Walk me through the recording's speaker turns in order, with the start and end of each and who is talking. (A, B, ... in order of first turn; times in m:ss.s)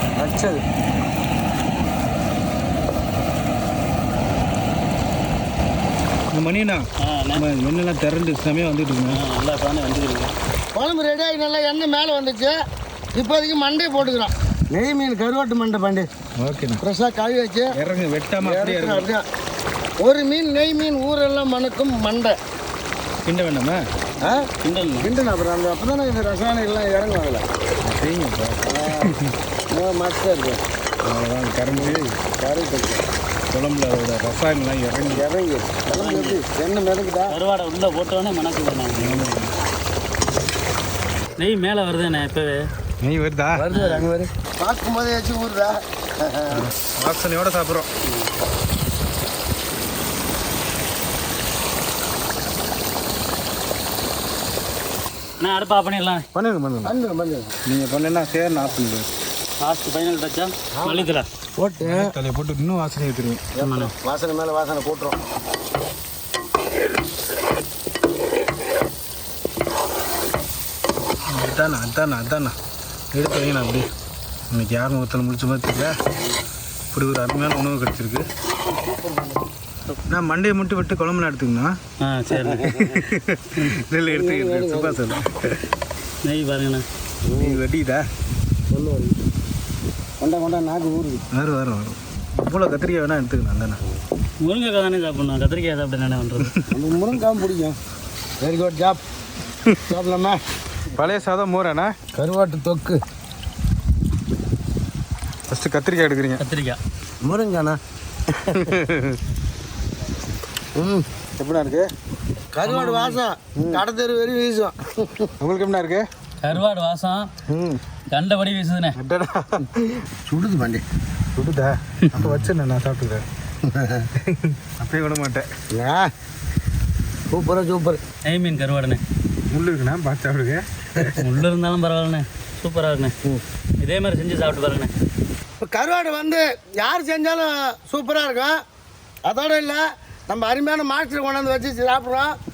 0:00.2-0:00.6 A
0:06.3-0:09.2 B
0:07.0-0:07.4 C
0:09.1-0:10.3 C
0:10.7-0:12.5 A
0:13.1-0:16.1 A
0:16.4-0:16.8 B
0:16.8-0:17.7 A
0:17.7-0:19.1 B
0:18.4-0:19.2 A
0:20.0-0:22.4 A
0:23.2-0:23.8 B
0:24.2-0:24.5 A
0:24.6-0:25.1 C
0:25.0-0:27.4 A
0:27.8-0:29.3 B
0:28.6-0:29.1 A
0:29.7-0:30.6 A
0:31.0-0:32.1 B
0:31.7-0:33.0 A
0:33.5-0:35.2 B
0:35.1-0:37.3 A
0:35.9-0:36.4 C
0:37.3-0:39.3 C
0:39.0-0:39.5 B
0:41.4-0:42.7 C
0:43.0-0:43.6 B
0:43.5-0:46.6 A
0:43.7-0:44.0 C
0:46.5-0:47.9 B
0:55.4-0:56.3 C
0:56.3-0:56.9 B
0:56.8-0:57.5 A
0:57.6-0:59.1 B
0:59.6-1:01.2 C
1:00.7-1:02.1 A
1:01.8-1:03.5 B
1:03.5-1:05.2 A
1:03.6-1:03.9 C
1:11.3-1:12.5 B
1:13.1-1:13.9 B
1:14.5-1:16.0 B
1:16.9-1:18.3 B
1:19.0-1:19.3 A
1:20.1-1:21.8 B
1:22.0-1:22.8 C
1:22.4-1:23.1 A
1:22.7-1:25.6 B
1:24.1-1:25.0 A
1:26.2-1:26.8 C
1:27.2-1:27.6 A
1:27.4-1:28.0 B
1:28.7-1:29.2 A
1:30.2-1:31.2 A
1:31.3-1:33.8 B
1:34.4-1:36.5 C
1:36.4-1:36.7 B
1:36.7-1:37.8 A
1:38.4-1:39.0 A
1:39.8-1:40.4 A
1:41.0-1:41.9 B
1:42.1-1:43.0 A
1:45.5-1:46.4 B
1:46.4-1:46.8 C
1:47.2-1:47.8 A
1:48.5-1:49.2 B
1:50.8-1:51.0 A
1:51.4-1:51.9 B
1:52.5-1:55.3 A
1:52.6-1:53.2 C
1:53.6-1:53.8 B
1:55.4-1:56.0 B
1:56.4-1:57.3 C
1:58.1-1:59.0 C
1:58.9-2:00.0 B
2:00.2-2:00.8 A
2:01.4-2:03.2 B
2:03.6-2:04.1 A
2:04.2-2:05.5 B
2:05.7-2:06.1 A
2:07.3-2:08.0 A
2:08.2-2:09.0 C
2:09.5-2:11.3 B
2:11.2-2:13.1 C
2:13.8-2:14.9 C
2:15.6-2:18.6 A
2:19.2-2:22.3 A